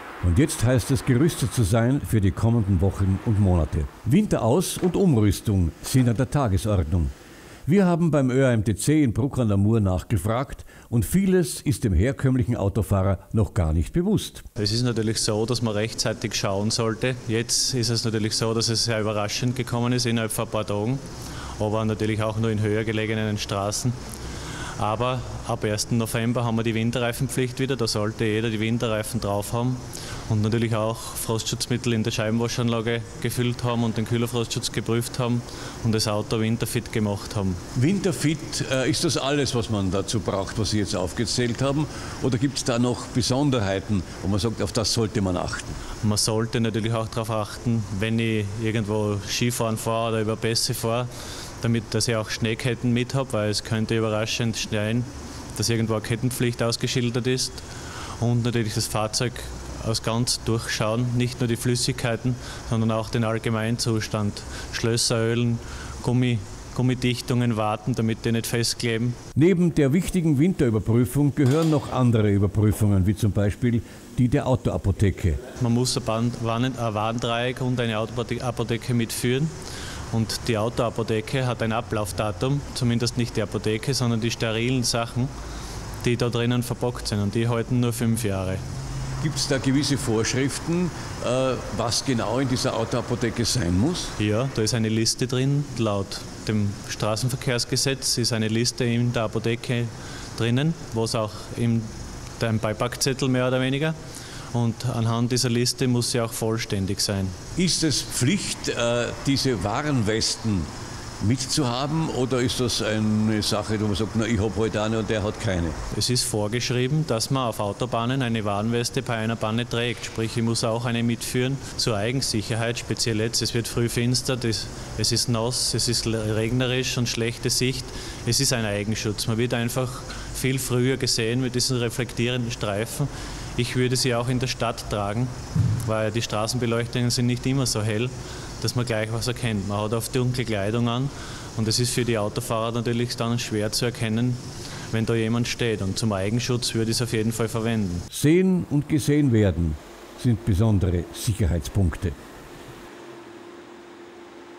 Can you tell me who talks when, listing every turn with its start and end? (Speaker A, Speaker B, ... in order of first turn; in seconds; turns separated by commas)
Speaker A: 0.2-7.1, Speaker A: 7.7-14.4, Speaker B: 14.6-21.0, Speaker B: 21.6-23.9, Speaker B: 24.8-37.6, Speaker A: 37.7-45.8, Speaker B: 46.0-51.1, Speaker B: 51.6-57.6, Speaker B: 58.2-69.2, Speaker A: 69.3-75.4, Speaker B: 75.6-79.5, Speaker B: 80.1-85.3, Speaker B: 86.0-88.6, Speaker A: 89.2-94.1, Speaker B: 94.2-104.0, Speaker B: 104.5-107.3, Speaker A: 107.5-110.7, Speaker A: 111.2-115.8, Speaker B: 115.9-144.4, Speaker B: 144.9-148.0, Speaker A: 148.1-152.2